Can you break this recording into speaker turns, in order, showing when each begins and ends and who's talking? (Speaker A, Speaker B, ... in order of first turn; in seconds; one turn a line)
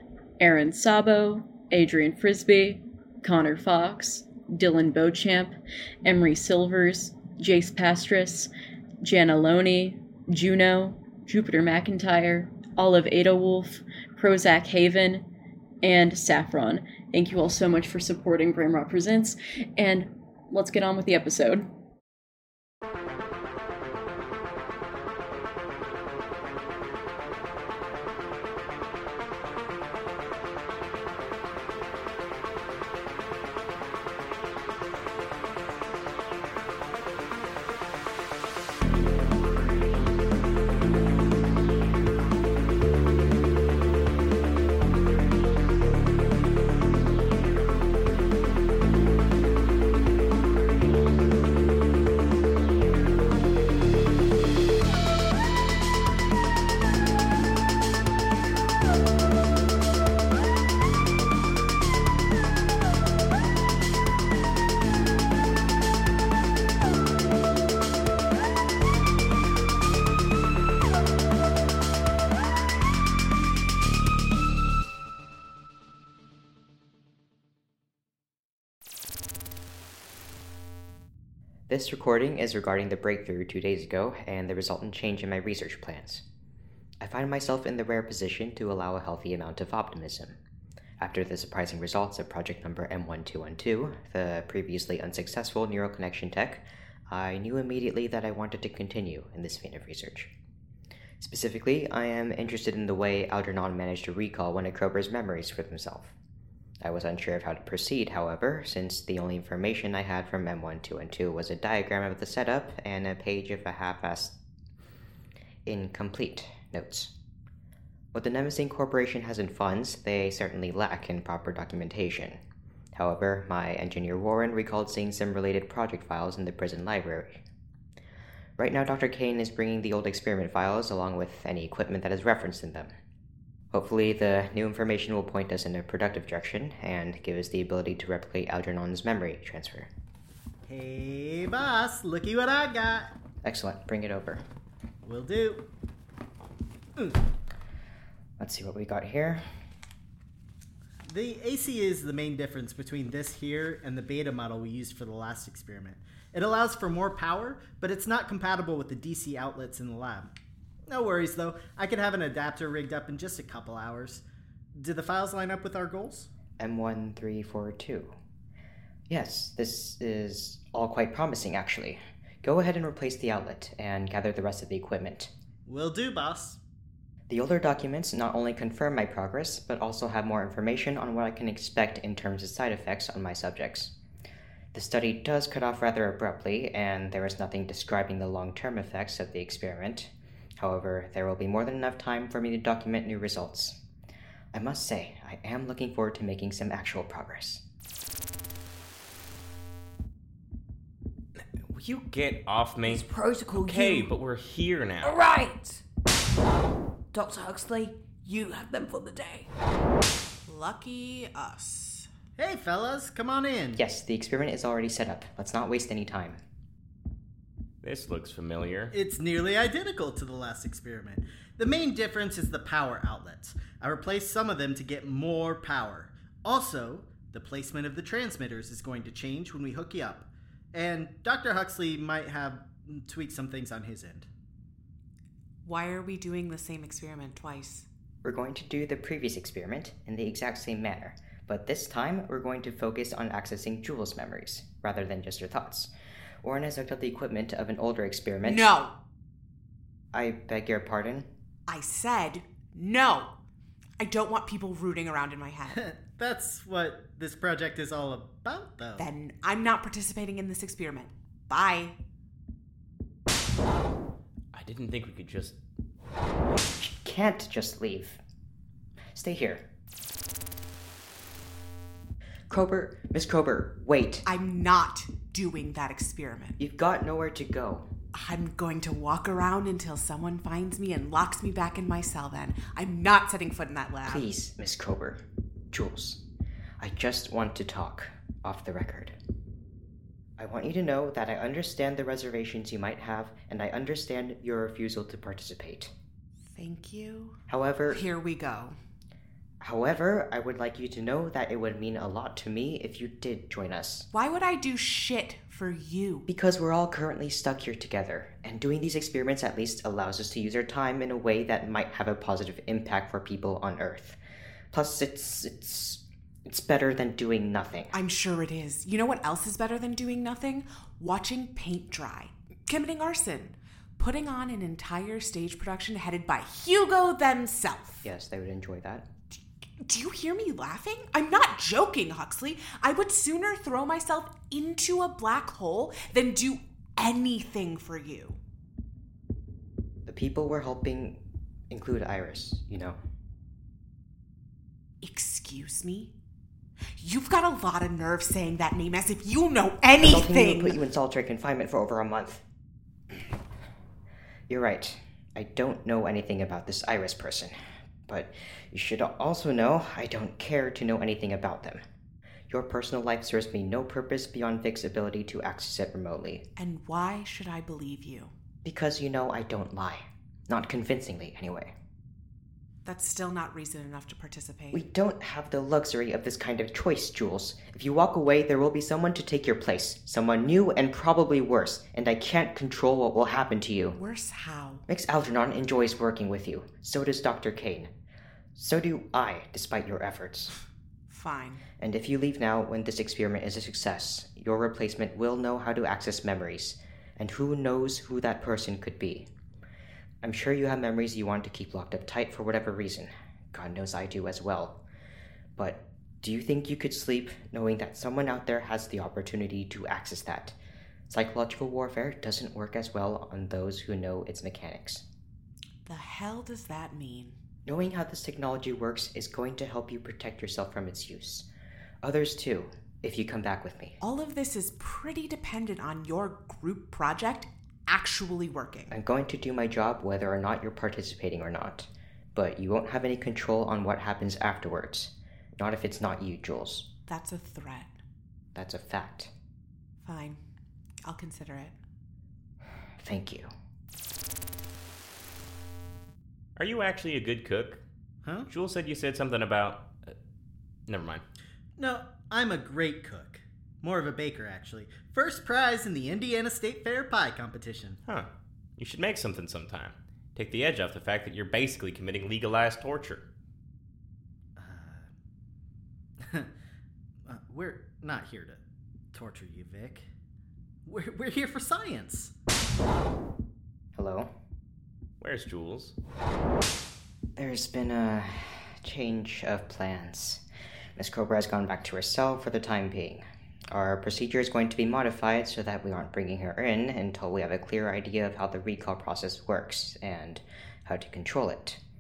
Speaker A: 0.4-8.5
Speaker A: 9.0-15.2
Speaker A: 15.8-21.7
Speaker B: 81.7-86.2
Speaker B: 87.0-90.4
Speaker B: 91.0-100.3
Speaker B: 101.2-106.2
Speaker B: 106.8-114.3
Speaker B: 115.7-117.1
Speaker B: 118.1-122.4
Speaker B: 123.0-127.4
Speaker B: 128.6-132.9
Speaker B: 133.7-139.9
Speaker C: 140.6-143.1
Speaker B: 143.4-144.4
Speaker C: 145.0-145.7
Speaker B: 148.4-149.4
Speaker C: 151.1-160.3
Speaker C: 160.9-164.2
Speaker C: 164.8-166.3
Speaker B: 166.6-168.1
Speaker B: 169.1-175.3
Speaker C: 175.6-176.6
Speaker B: 177.3-183.9
Speaker B: 184.7-193.8
Speaker B: 194.5-197.6
Speaker D: 201.4-205.2
Speaker E: 202.9-204.0
Speaker E: 205.0-205.8
Speaker E: 207.1-209.4
Speaker F: 210.5-212.1
Speaker C: 212.4-213.8
Speaker B: 213.8-216.4
Speaker D: 217.8-218.9
Speaker C: 218.9-234.3
Speaker F: 235.6-237.9
Speaker B: 238.2-245.9
Speaker B: 246.4-248.7
Speaker F: 248.4-248.9
Speaker B: 250.1-251.3
Speaker F: 251.7-253.3
Speaker F: 254.0-255.8
Speaker C: 255.7-259.1
Speaker F: 259.0-262.0
Speaker D: 264.5-265.6
Speaker B: 266.6-268.2
Speaker B: 269.1-269.6
Speaker B: 272.5-274.2
Speaker F: 274.2-276.6
Speaker B: 276.6-277.9
Speaker F: 278.1-284.2
Speaker B: 284.1-286.2
Speaker B: 286.8-289.1
Speaker B: 290.4-295.9
Speaker F: 296.5-297.4
Speaker B: 297.5-298.0
Speaker F: 297.9-298.8
Speaker B: 299.6-304.1
Speaker F: 304.1-306.2
Speaker B: 306.3-314.2
Speaker B: 314.7-317.9
Speaker F: 317.9-328.0
Speaker B: 328.0-329.1
Speaker F: 329.8-338.4
Speaker B: 340.1-341.2
Speaker B: 341.7-343.0
Speaker F: 345.0-346.1
Speaker F: 347.0-350.8
Speaker B: 350.0-352.4
Speaker B: 354.5-357.6
Speaker B: 358.1-361.8
Speaker B: 362.5-366.4
Speaker F: 366.6-368.3
Speaker B: 368.6-371.7
Speaker F: 372.9-374.8
Speaker B: 374.7-384.0
Speaker F: 384.0-384.8
Speaker B: 384.9-387.9
Speaker B: 388.6-390.5
Speaker F: 391.1-391.6
Speaker B: 391.8-399.3
Speaker B: 400.2-404.8
Speaker B: 405.6-410.6
Speaker B: 411.1-415.1
Speaker F: 415.9-417.4
Speaker B: 417.7-421.5
Speaker B: 422.0-424.0
Speaker F: 424.0-428.9
Speaker B: 428.9-436.9
Speaker F: 437.1-438.0
Speaker B: 438.6-439.3
Speaker F: 440.0-440.4
Speaker F: 441.1-441.7
Speaker B: 443.0-443.5
Speaker D: 446.6-447.8
Speaker D: 448.5-450.1
Speaker D: 450.9-451.2
Speaker C: 451.8-458.0
Speaker D: 458.8-463.2
Speaker C: 464.6-465.1
Speaker C: 466.2-466.5
Speaker C: 467.3-468.6
Speaker C: 469.1-470.1
Speaker C: 470.9-472.3
Speaker B: 474.0-474.3
Speaker D: 475.2-475.9
Speaker B: 477.4-480.4
Speaker B: 481.0-491.8